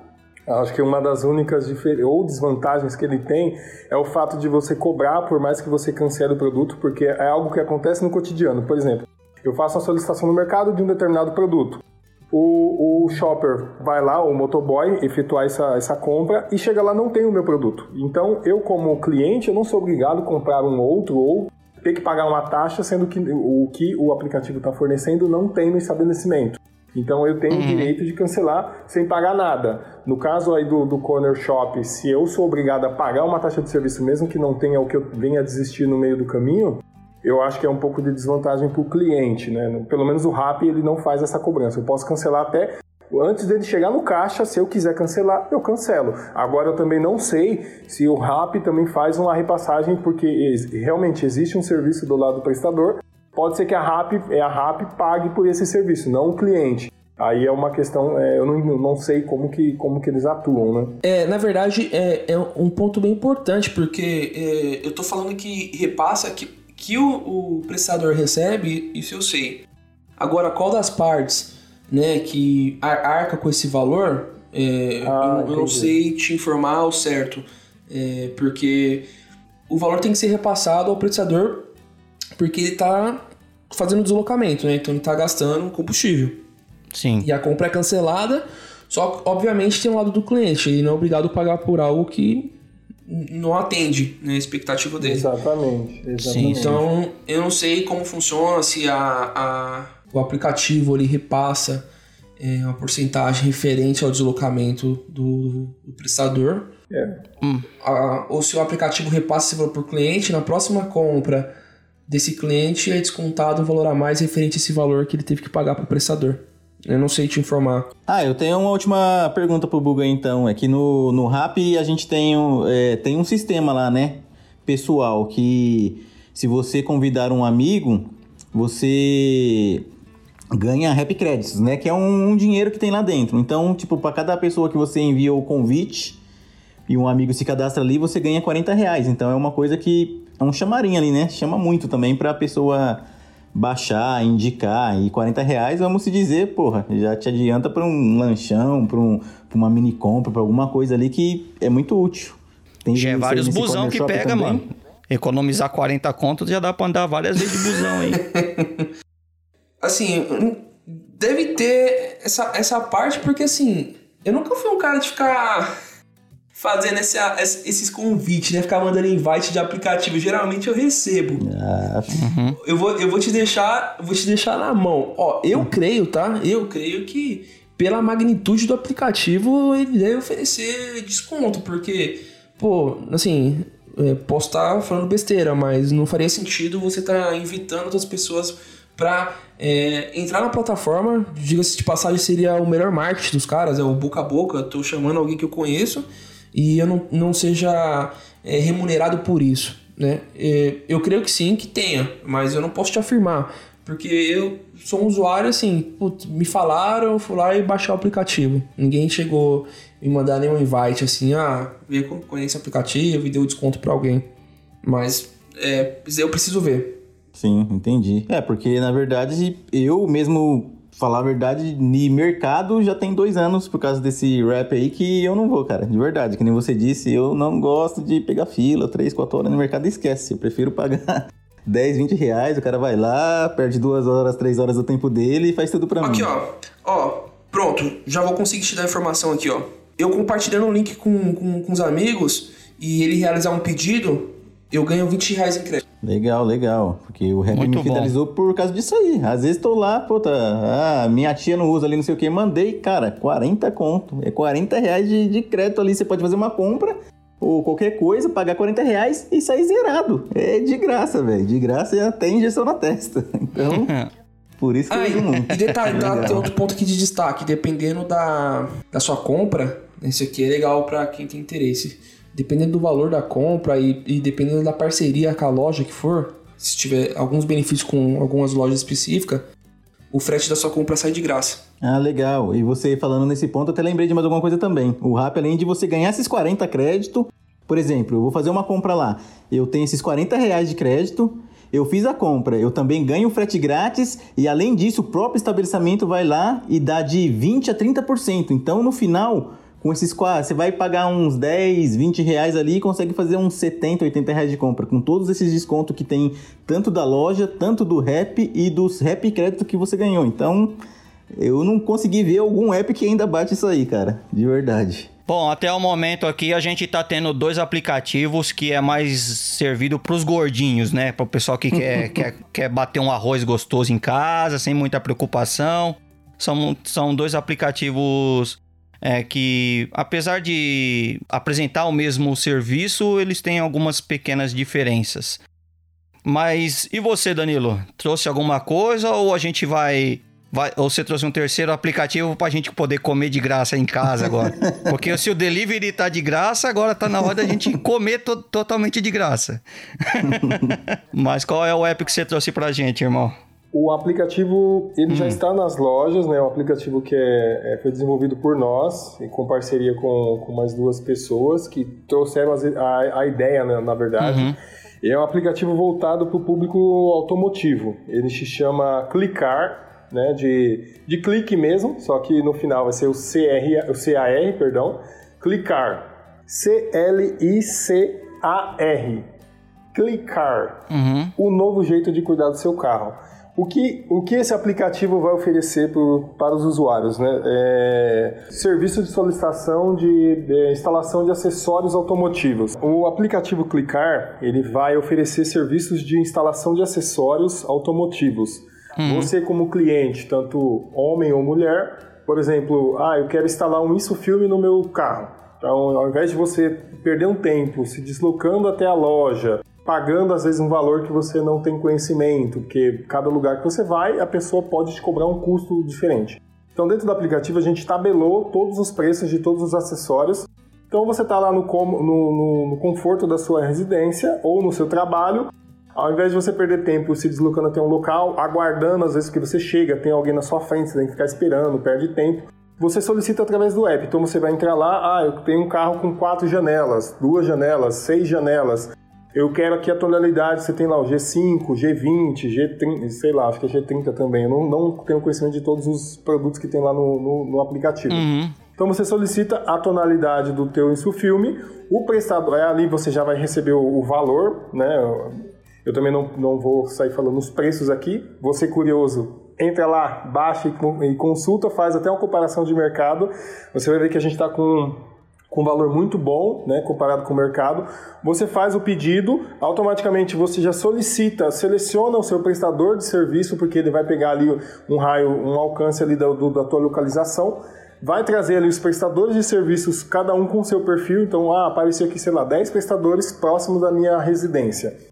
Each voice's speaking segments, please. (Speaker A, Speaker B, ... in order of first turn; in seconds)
Speaker A: 0.5-61.0, 75.0-75.9, 95.0-96.8, 106.9-107.2, 353.7-379.2, 379.9-380.9, 381.4-448.2, 448.8-484.9
Speaker B: 27.5-27.9, 86.9-87.3, 96.2-96.8, 107.4-107.7, 152.9-158.2, 172.1-172.6, 247.5-248.1, 263.6-264.1, 265.7-266.1, 315.3-335.4, 336.2-353.3, 355.1-355.4, 364.2-364.6, 380.9-381.3, 399.0-399.3, 448.1-448.6
Speaker C: 61.0-69.6, 70.2-79.0, 79.7-81.7, 82.4-86.4, 87.2-92.5, 93.1-95.3, 96.4-101.8, 102.4-106.7, 107.8-111.5, 112.1-117.9, 157.5-158.9, 159.8-165.7, 166.5-171.4, 172.6-214.2, 214.8-217.0, 236.0-245.8, 264.9-279.4, 280.1-281.6
Speaker D: 118.1-129.8, 130.5-136.2, 136.9-143.0, 143.5-154.7, 171.4-172.3, 217.3-236.3, 246.0-263.9, 264.6-266.5, 281.8-310.8, 311.4-315.1, 350.2-350.7